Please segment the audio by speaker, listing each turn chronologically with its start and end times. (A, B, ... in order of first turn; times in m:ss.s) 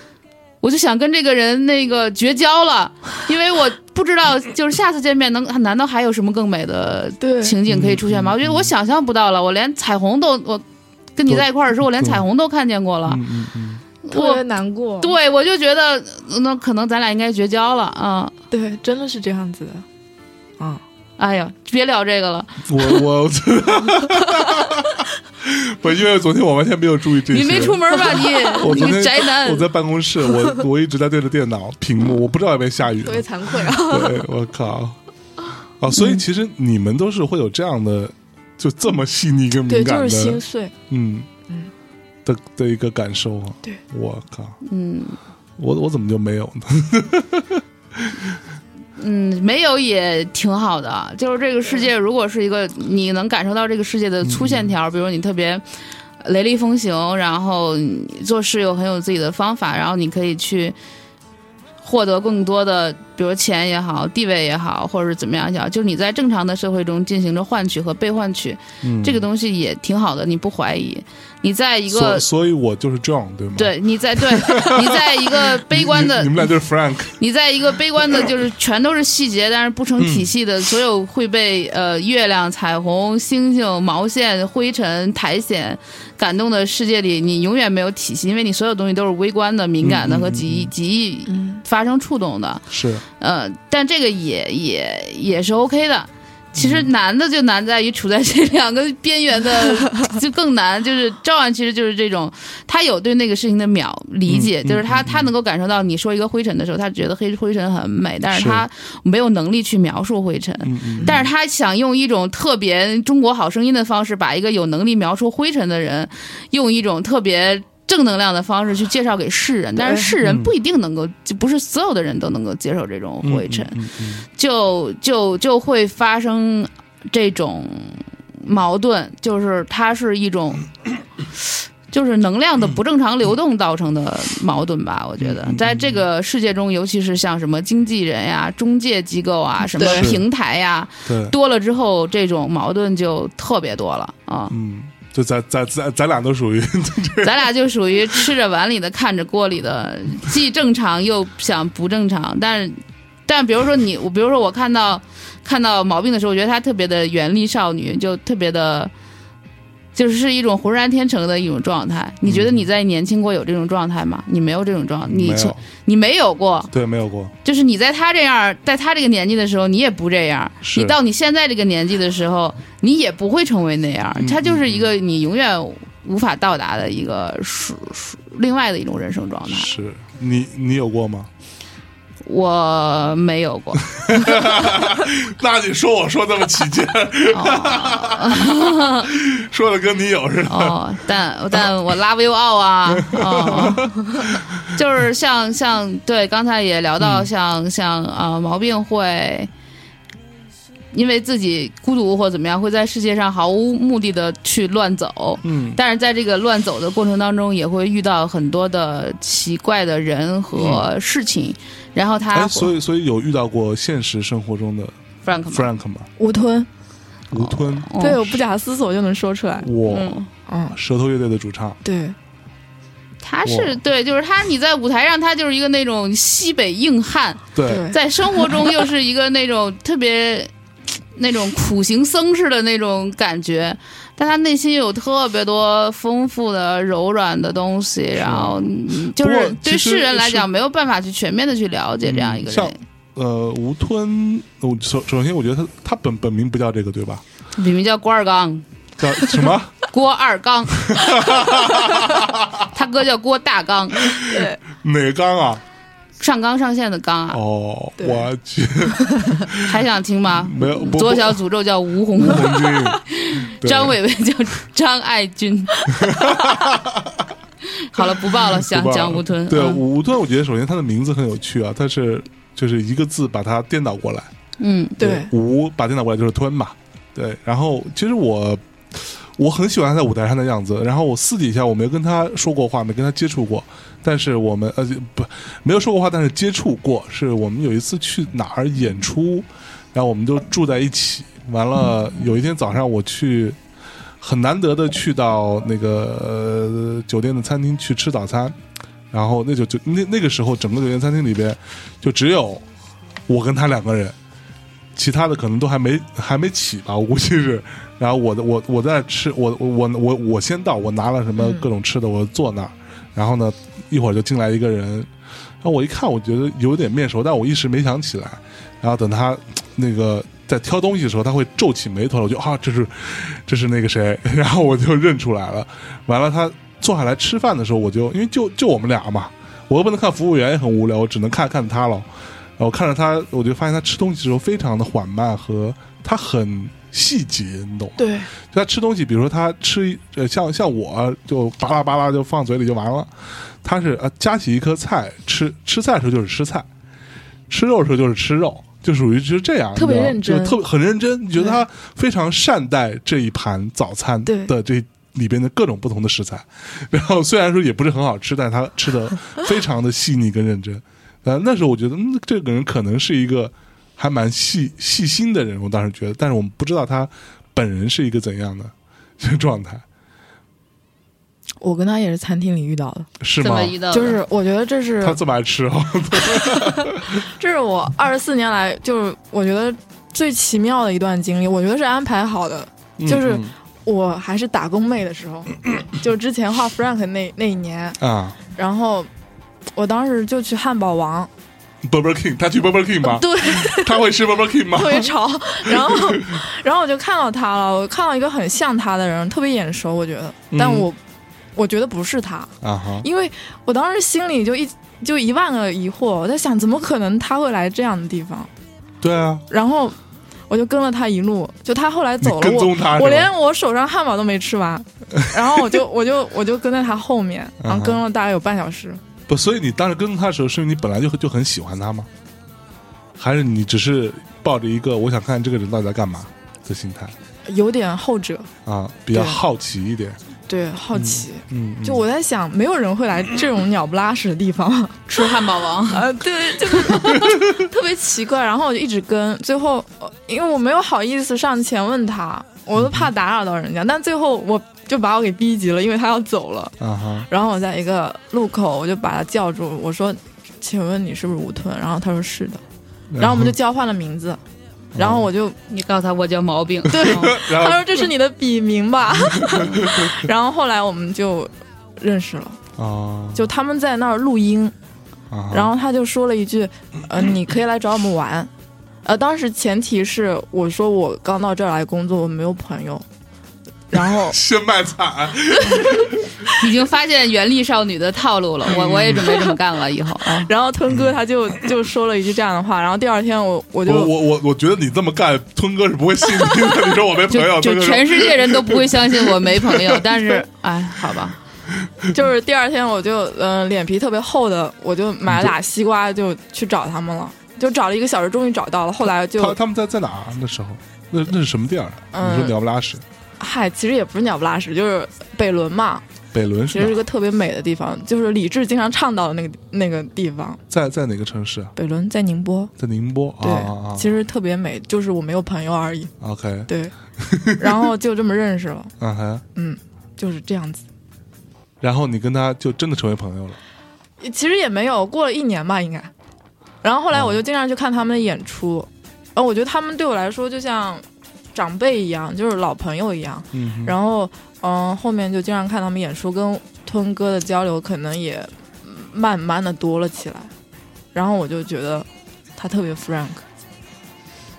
0:00.6-0:10.6 A
0:07.2-0:07.6 B
0:07.7-0:08.7 C
0:11.2-0:13.2 A
0:12.0-0:12.2 C
0:13.1-0:13.8 C
0:14.0-0:14.4 A
0:14.1-0:15.2 B
0:15.0-0:18.3 A
0:18.5-0:19.9 B
0:21.2-0:23.0 A
0:22.7-0:35.0 C
0:27.3-0:29.7 A
0:28.3-0:28.6 B
0:33.0-0:34.3 B
0:35.8-0:41.3 C
0:35.9-0:36.2 B
0:39.7-0:40.7 B
0:42.2-0:44.6 C
0:44.6-0:45.2 A
0:45.6-0:48.4 C
0:49.0-0:55.6 A
0:54.2-0:54.7 C
0:56.2-1:00.8 A
1:01.8-1:12.3 A
1:08.8-1:09.3 C
1:11.9-1:17.2 C
1:13.6-1:16.5 A
1:17.2-1:32.7 A
1:20.0-1:20.3 C
1:29.8-1:30.7 C
1:31.3-1:31.6 B
1:32.7-1:33.0 C
1:33.2-2:03.8 A
1:36.6-1:36.9 C
1:44.3-1:45.3 C
1:48.3-1:48.7 C
1:50.6-1:51.2 C
1:59.8-2:00.1 B
2:00.2-2:00.5 C
2:03.2-2:04.3 C
2:04.4-2:10.7 A
2:11.9-2:24.5 A
2:15.2-2:16.0 C
2:19.8-2:20.1 B
2:19.8-2:20.3 C
2:21.1-2:21.4 C
2:24.5-2:27.5 C
2:27.2-2:38.9 A
2:40.0-2:46.7 A
2:42.2-2:42.7 C
2:45.1-2:45.6 C
2:46.7-2:47.3 C
2:47.4-2:59.7 A
2:50.6-2:51.0 C
2:54.2-2:54.9 C
2:59.5-3:01.3 C
3:02.2-3:04.6 A
3:03.9-3:10.8 C
3:07.3-3:09.1 A
3:10.5-3:19.5 A
3:12.9-3:14.7 C
3:17.0-3:17.3 C
3:20.9-3:32.7 A
3:25.4-3:25.8 C
3:30.6-3:30.9 C
3:32.3-3:35.0 C
3:35.2-3:35.7 A
3:35.5-3:36.1 C
3:36.2-3:36.7 B
3:37.3-3:38.4 C
3:37.3-3:38.3 A
3:38.0-3:39.7 B
3:39.6-3:40.2 C
3:39.9-3:40.3 A
3:40.5-3:40.8 B
3:40.7-3:41.8 C
3:41.8-3:42.2 B
3:43.2-3:50.5 A
3:43.5-3:43.8 C
3:47.5-3:47.9 C
3:47.7-3:48.0 B
3:51.2-4:02.8 A
3:58.2-4:00.5 C
4:02.0-4:07.2 C
4:07.6-4:08.6 A
4:09.0-4:09.8 C
4:09.2-4:11.6 A
4:10.8-4:12.7 C
4:12.7-4:14.2 A
4:14.0-4:15.6 C
4:14.3-4:14.6 B
4:16.2-4:17.4 A
4:17.3-4:19.8 C
4:18.0-4:18.3 B
4:19.2-4:19.4 B
4:19.6-4:26.4 A
4:20.4-4:21.4 C
4:22.2-4:24.0 C
4:25.9-4:27.3 C
4:27.8-4:29.8 A
4:28.4-4:34.3 C
4:34.6-4:35.0 A
4:35.0-4:35.3 B
4:35.0-4:53.6 C
4:54.2-4:58.6 C
4:59.1-5:02.6 C
5:03.3-5:04.2 C
5:05.0-5:15.1 C
5:11.4-5:11.7 B
5:15.6-5:46.7 C
5:38.0-5:38.3 B
5:47.5-6:09.8 C
5:49.8-5:50.6 B
5:54.3-5:54.5 B
6:11.6-6:13.1 B
6:13.2-6:13.8 C
6:13.4-6:14.2 A
6:13.9-6:15.2 B
6:15.0-6:17.1 C
6:16.5-6:28.0 B
6:23.0-6:23.5 C
6:28.0-6:28.4 C
6:28.6-6:29.1 B
6:29.8-6:31.3 B
6:31.8-6:35.1 C
6:33.1-6:34.0 B
6:34.7-6:41.0 B
6:35.7-6:36.4 C
6:40.5-6:40.9 C
6:41.6-6:48.5 B
6:42.6-6:43.1 C
6:49.0-6:49.4 C
6:49.5-6:50.0 B
6:50.5-6:59.0 B
6:52.2-6:53.3 C
6:55.2-6:55.8 C
6:57.6-6:58.0 C
6:59.3-7:02.1 C
7:03.2-7:07.2 C
7:07.5-7:08.5 B
7:08.6-7:10.2 C
7:09.1-7:09.4 B
7:10.5-7:15.4 B
7:10.9-7:12.1 C
7:15.1-7:16.2 A
7:15.9-7:26.8 B
7:22.8-7:23.1 C
7:26.8-7:27.3 C
7:27.3-7:32.6 B
7:33.1-7:33.6 C
7:33.2-7:34.4 B
7:35.0-7:35.3 C
7:35.0-7:35.6 B
7:35.7-7:37.4 A
7:36.9-7:38.1 C
7:36.9-7:42.6 B
7:39.5-7:40.1 C
7:42.8-7:43.5 C
7:43.3-7:44.8 B
7:45.3-7:45.7 C
7:45.5-7:48.5 B
7:49.0-7:53.0 B
7:53.9-7:54.4 B
7:53.9-7:56.5 C
7:56.5-8:00.5 A
7:58.7-7:59.3 C
8:00.4-8:04.1 B
8:03.8-8:10.1 C
8:07.3-8:11.4 A
8:12.1-8:19.6 B
8:15.3-8:15.6 C
8:19.3-8:23.0 C
8:22.1-8:22.6 B
8:23.4-8:26.0 B
8:26.3-8:27.0 C
8:26.7-8:30.6 B
8:30.7-8:31.7 C
8:31.8-8:32.7 B
8:32.8-8:34.1 C
8:33.4-8:36.1 B
8:36.2-8:37.9 C
8:36.7-8:36.9 B
8:37.6-8:38.9 B
8:39.0-8:39.4 C
8:39.6-8:40.8 B
8:41.8-8:43.6 C
8:44.2-8:46.1 B
8:46.8-9:00.5 B
8:53.5-8:54.0 C
9:01.1-9:03.4 B